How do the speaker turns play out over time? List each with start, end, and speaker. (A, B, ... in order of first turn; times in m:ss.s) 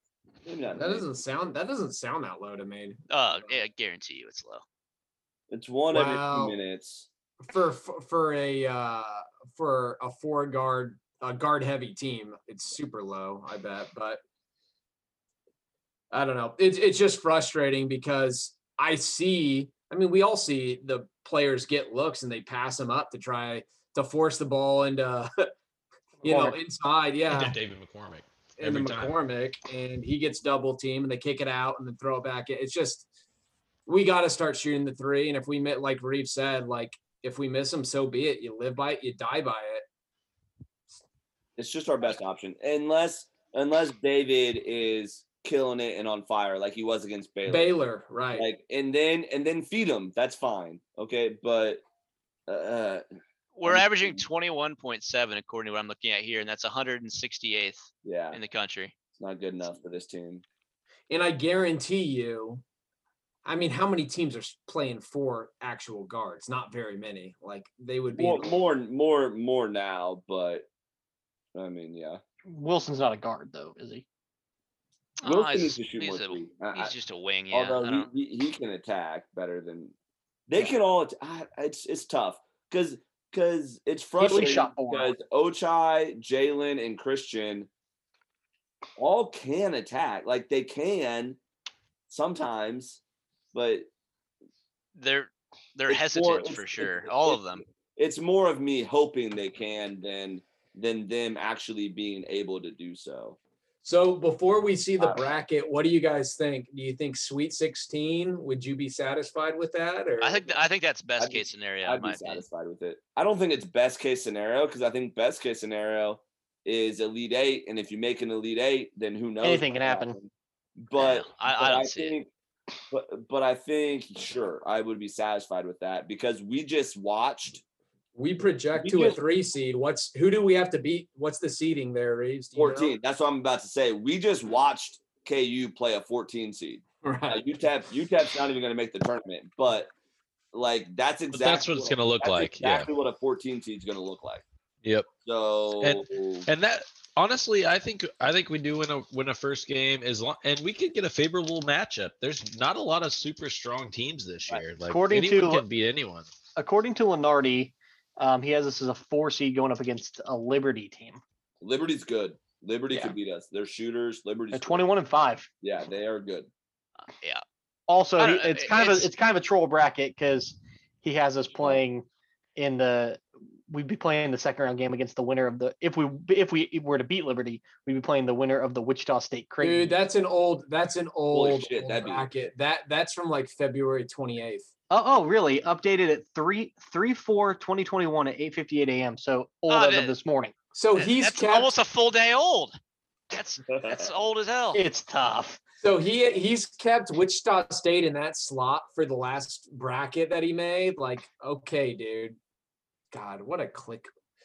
0:00.4-0:01.1 A
0:00.8-0:03.5 B
0:03.1-0:04.6 C
0:05.5-0:07.1 A
0:05.9-0:06.6 B
0:07.4-0:14.2 B
0:16.1-0:25.5 B
0:26.2-0:26.6 D
0:26.2-0:27.6 B
0:27.3-0:29.2 E
0:28.6-0:33.1 B
0:33.9-0:39.8 B
0:41.6-0:47.7 A
0:47.5-0:48.5 B
0:48.3-0:51.8 A
0:52.5-0:53.0 A
0:53.6-0:58.9 C
0:53.6-0:54.2 A
0:58.0-0:58.4 A
0:59.2-1:00.4 A
1:01.1-1:02.6 B
1:03.4-1:08.6 B
1:08.1-1:10.7 A
1:11.6-1:12.2 A
1:12.5-1:14.0 D
1:15.2-1:18.1 C
1:15.2-1:16.9 A
1:17.5-1:19.9 A
1:20.5-1:27.7 A
1:24.2-1:25.1 D
1:29.0-1:31.4 A
1:32.1-1:33.0 A
1:33.5-1:33.9 A
1:35.0-1:37.6 C
1:35.9-1:37.4 A
1:38.0-1:43.4 A
1:43.8-1:50.6 B
1:45.0-1:45.3 A
1:50.2-1:52.4 C
1:51.2-2:02.3 A
1:59.4-2:00.2 D
2:00.9-2:02.2 C
2:02.9-2:07.6 A
2:08.2-2:12.9 B
2:08.8-2:09.2 A
2:12.6-2:19.9 A
2:17.0-2:17.5 B
2:20.5-2:24.4 A
2:21.3-2:22.9 E
2:25.2-2:26.5 A
2:25.8-2:36.3 E
2:34.9-2:35.6 D
2:36.6-2:41.2 D
2:41.6-2:44.8 A
2:44.5-2:45.5 D
2:45.6-2:46.5 A
2:47.9-3:00.0 D
2:48.2-2:49.1 C
2:59.6-3:04.7 B
3:01.3-3:02.3 A
3:04.9-3:10.5 D
3:09.7-3:10.2 C
3:10.7-3:11.7 B
3:11.0-3:12.8 C
3:13.3-3:14.8 C
3:13.7-3:14.1 A
3:14.7-3:15.6 D
3:15.8-3:22.4 B
3:23.1-3:24.1 B